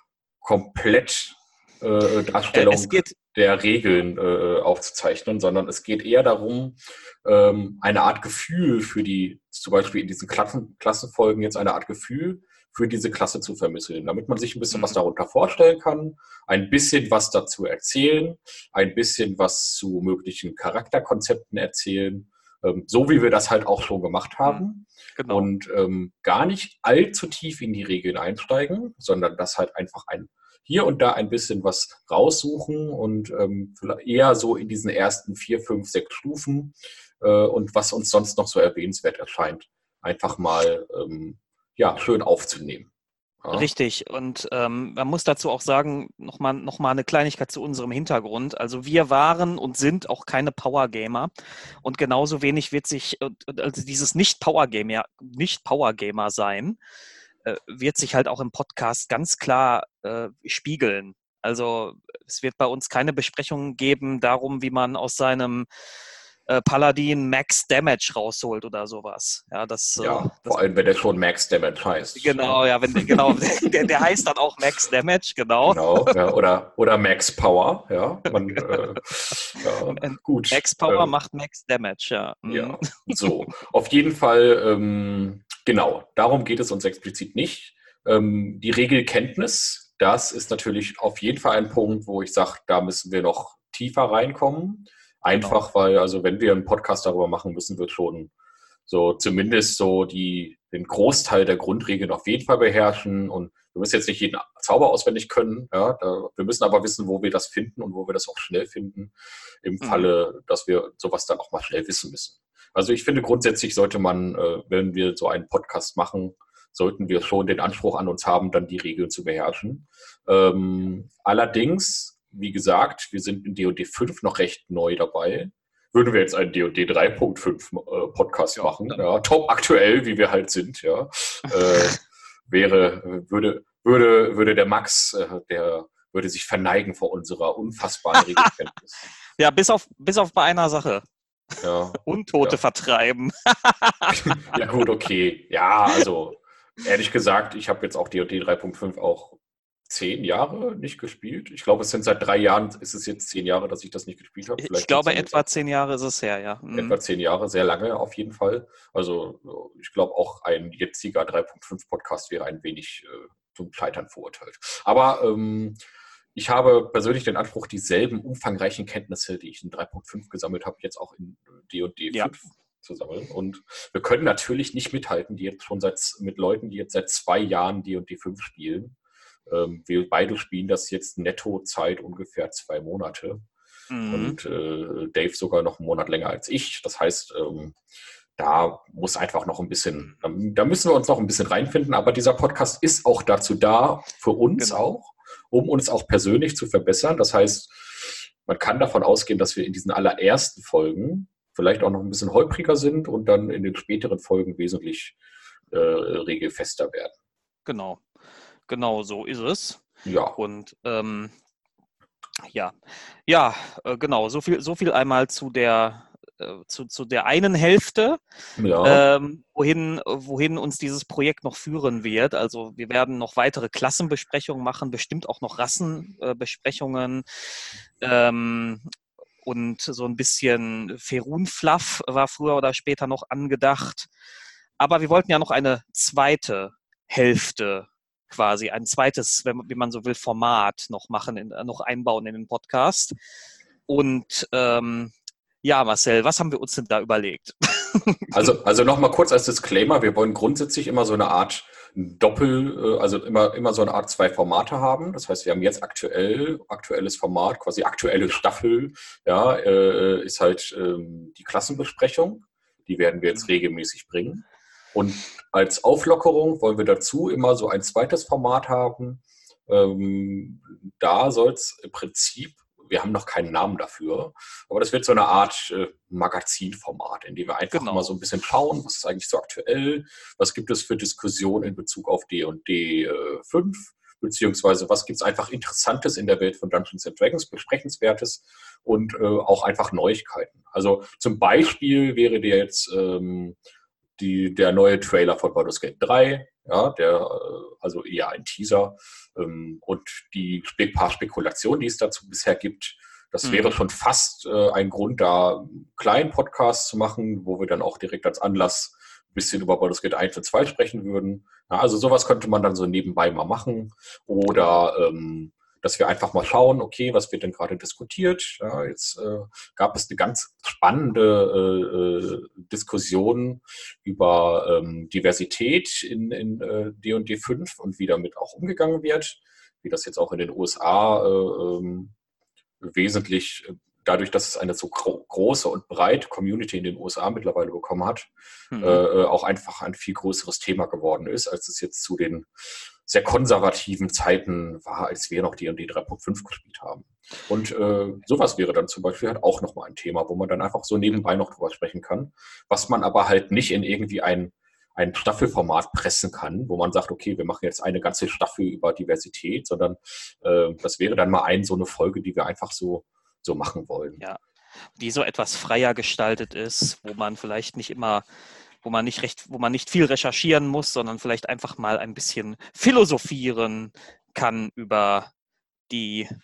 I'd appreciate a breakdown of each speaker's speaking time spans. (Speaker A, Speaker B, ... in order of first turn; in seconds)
Speaker A: 0.4-42.9, 43.4-43.7, 70.0-73.4, 75.6-81.2, 82.5-98.3, 98.9-132.0, 132.5-139.0, 141.6-142.6, 144.2-155.5, 156.7-165.8, 166.3-179.0, 179.5-183.4, 184.1-187.8, 188.4-205.2, 205.7-207.1, 210.1-210.4, 218.6-219.1, 248.3-293.6, 294.2-332.1, 332.8-364.2
Speaker B: 2.5-3.2, 14.7-15.0, 25.2-25.5, 43.5-51.3, 51.8-56.8, 57.4-65.7, 66.5-70.6, 72.2-76.2, 78.3-79.3, 79.9-83.6, 95.3-95.6, 109.8-110.1, 128.6-129.0, 138.2-138.5, 139.4-141.1, 142.0-144.3, 154.6-157.0, 183.9-184.4, 194.6-194.8, 207.7-208.0, 208.7-209.8, 210.4-211.3, 212.5-218.2, 218.8-227.2, 228.0-228.8, 229.4-234.1, 234.8-243.2, 243.9-248.5, 263.3-263.6, 277.7-278.1, 303.4-303.8, 314.5-314.8, 338.7-339.0, 365.0-368.3, 368.8-375.3, 375.9-376.3